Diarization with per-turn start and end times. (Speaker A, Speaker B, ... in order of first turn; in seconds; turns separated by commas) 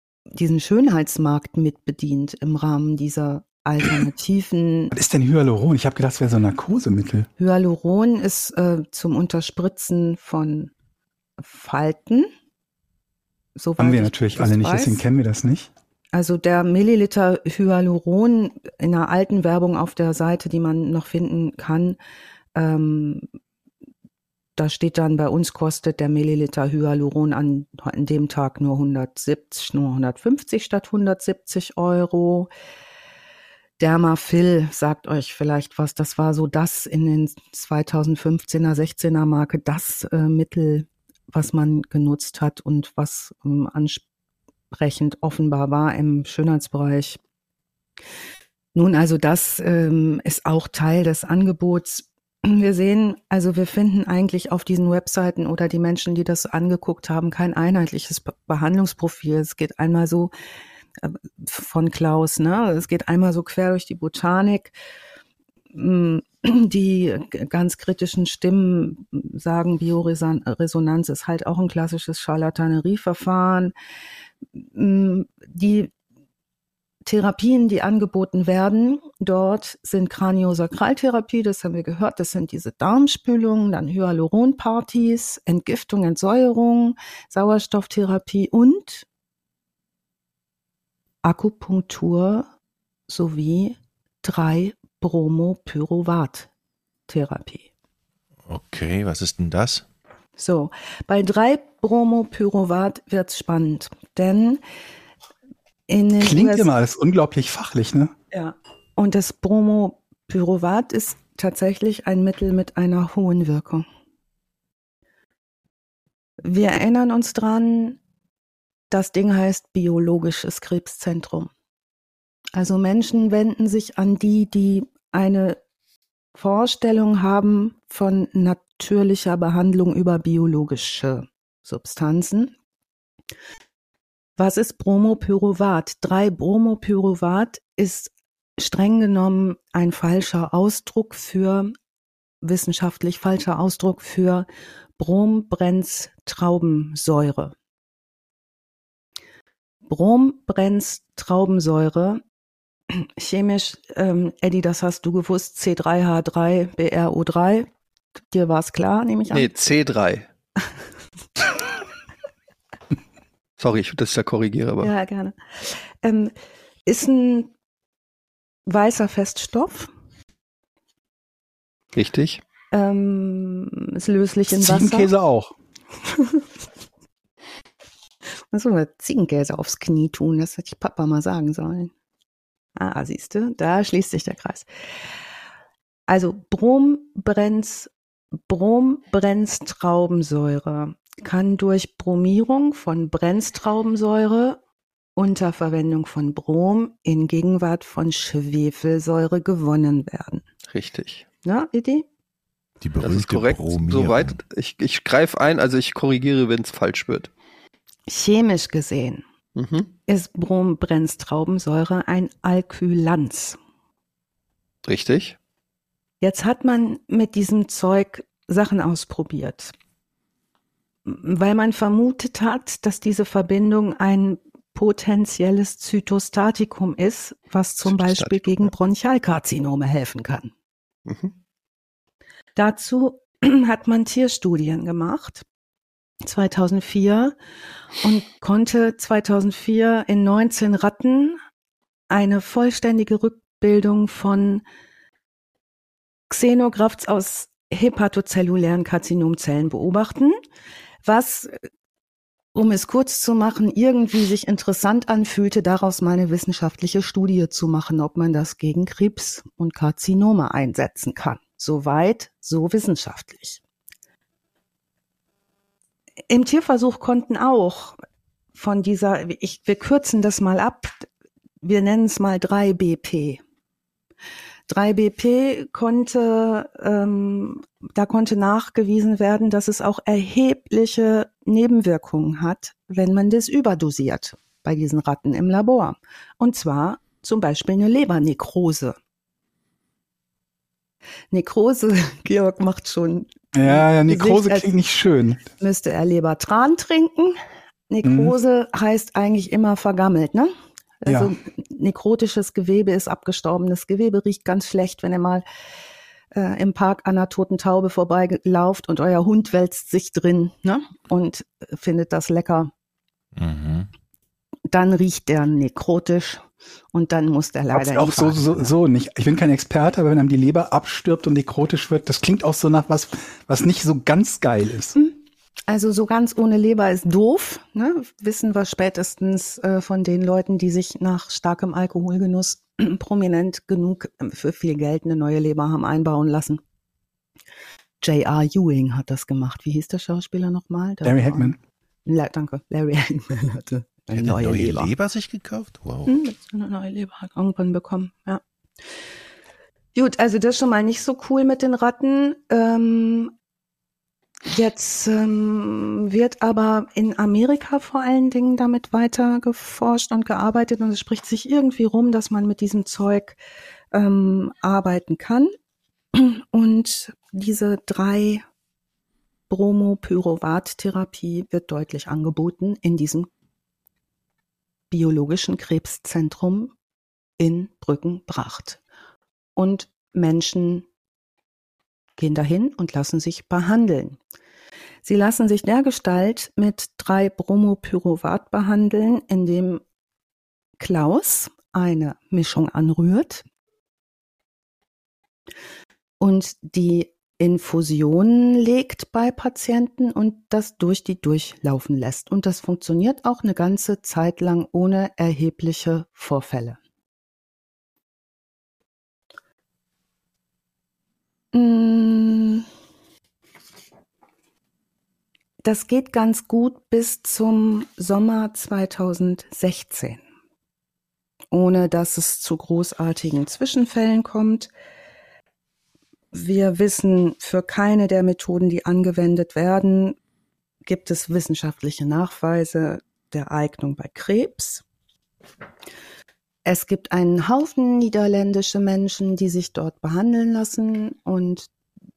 Speaker A: 0.3-4.9, Speaker B: 4.9-7.3, Speaker A: 7.4-10.7, Speaker A: 11.4-12.3, Speaker A: 13.6-15.0, Speaker B: 13.8-15.7, Speaker A: 16.1-22.0, Speaker A: 22.6-23.3, Speaker A: 24.6-32.5, Speaker A: 33.8-44.0, Speaker A: 44.7-47.2, Speaker A: 48.8-60.3, Speaker A: 61.0-64.7, Speaker A: 65.7-73.7, Speaker A: 74.5-75.9, Speaker A: 77.0-89.1, Speaker A: 91.2-92.5, Speaker A: 93.1-96.5, Speaker A: 97.1-97.7, Speaker C: 98.5-99.8, Speaker A: 100.4-104.6, Speaker A: 105.9-106.7, Speaker B: 106.2-108.1, Speaker A: 108.3-113.8, Speaker A: 116.4-118.0, Speaker A: 118.9-121.5, Speaker A: 122.5-125.6, Speaker A: 126.3-132.5, Speaker A: 134.4-141.7, Speaker A: 142.4-147.6, Speaker A: 149.9-152.2, Speaker A: 152.9-157.7, Speaker A: 158.3-159.5, Speaker D: 159.3-160.3, Speaker D: 163.6-164.9, Speaker A: 164.8-166.3, Speaker A: 166.9-167.5, Speaker A: 168.7-169.9, Speaker D: 171.9-172.4, Speaker A: 172.7-175.1, Speaker B: 174.5-175.5, Speaker A: 176.1-176.4, Speaker A: 178.5-181.9, Speaker A: 182.8-184.7, Speaker A: 186.1-187.9, Speaker A: 188.5-194.6, Speaker A: 195.2-200.4, Speaker D: 200.7-201.2, Speaker A: 201.4-202.1, Speaker C: 202.8-204.4, Speaker D: 203.0-207.3, Speaker A: 208.1-209.2, Speaker D: 209.6-209.9, Speaker A: 210.1-213.6, Speaker D: 214.8-215.4, Speaker A: 216.2-219.7, Speaker A: 221.1-230.5, Speaker D: 227.9-228.7, Speaker D: 231.1-231.3, Speaker A: 232.6-235.4, Speaker A: 236.2-237.4, Speaker A: 238.0-241.4, Speaker A: 242.1-244.6, Speaker A: 246.3-250.4, Speaker A: 251.0-251.6, Speaker A: 252.5-263.6, Speaker A: 266.3-268.0, Speaker A: 268.6-271.1, Speaker A: 271.6-273.4, Speaker A: 274.7-289.0, Speaker A: 291.3-294.7, Speaker B: 293.5-295.4, Speaker A: 295.6-297.4, Speaker A: 297.9-305.4, Speaker B: 298.0-298.3, Speaker B: 301.1-301.3, Speaker A: 306.3-312.7, Speaker C: 313.4-313.9, Speaker A: 314.7-316.4, Speaker A: 316.9-318.7, Speaker B: 317.7-325.0, Speaker A: 325.0-336.6, Speaker A: 338.0-341.6, Speaker B: 341.0-341.6, Speaker A: 342.1-344.9, Speaker C: 344.1-346.1, Speaker A: 346.1-348.4, Speaker A: 349.9-353.3, Speaker A: 354.5-363.4, Speaker A: 363.9-365.5, Speaker A: 366.1-368.4, Speaker A: 369.5-373.3, Speaker A: 374.9-376.7, Speaker A: 377.4-378.8, Speaker A: 379.6-380.9, Speaker A: 382.2-384.2, Speaker A: 385.1-389.8, Speaker A: 390.8-393.4, Speaker A: 396.2-406.8, Speaker A: 411.5-412.7, Speaker A: 415.6-420.2, Speaker A: 421.5-424.7, Speaker A: 426.3-430.2, Speaker A: 430.9-434.8, Speaker A: 436.7-441.7